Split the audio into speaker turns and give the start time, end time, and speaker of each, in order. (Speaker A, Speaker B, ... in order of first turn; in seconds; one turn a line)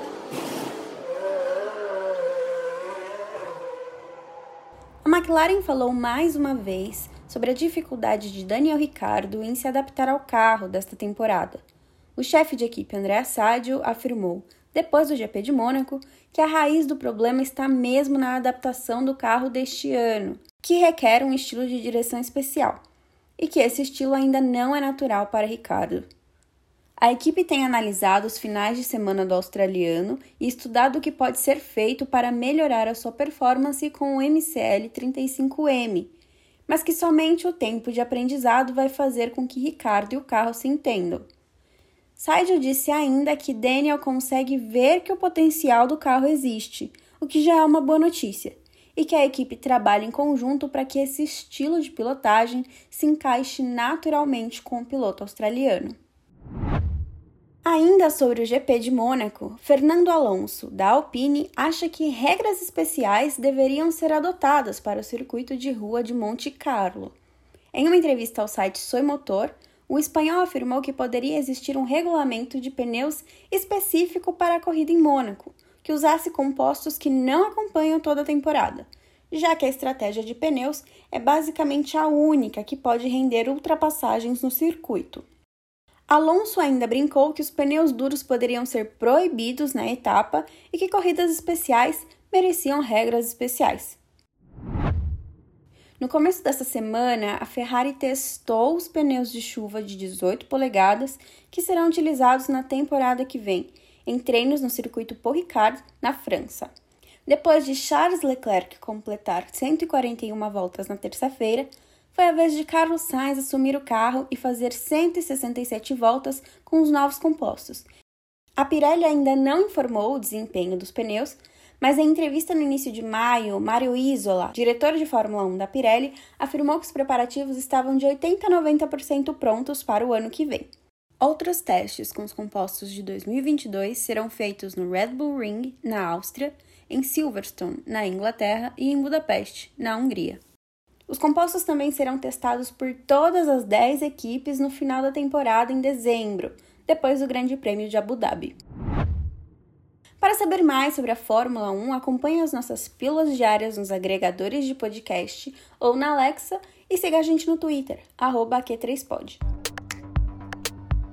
Speaker A: 5.0-11.6
Speaker A: 12.2-22.8
Speaker A: 23.4-26.1
Speaker A: 27.0-36.1
Speaker A: 36.7-41.3
Speaker A: 42.2-56.0
Speaker A: 57.6-67.2
Speaker A: 67.7-85.2
Speaker A: 86.1-94.0
Speaker A: 96.0-106.7
Speaker A: 107.3-117.9
Speaker A: 118.6-140.4
Speaker A: 141.1-148.6
Speaker A: 150.2-159.4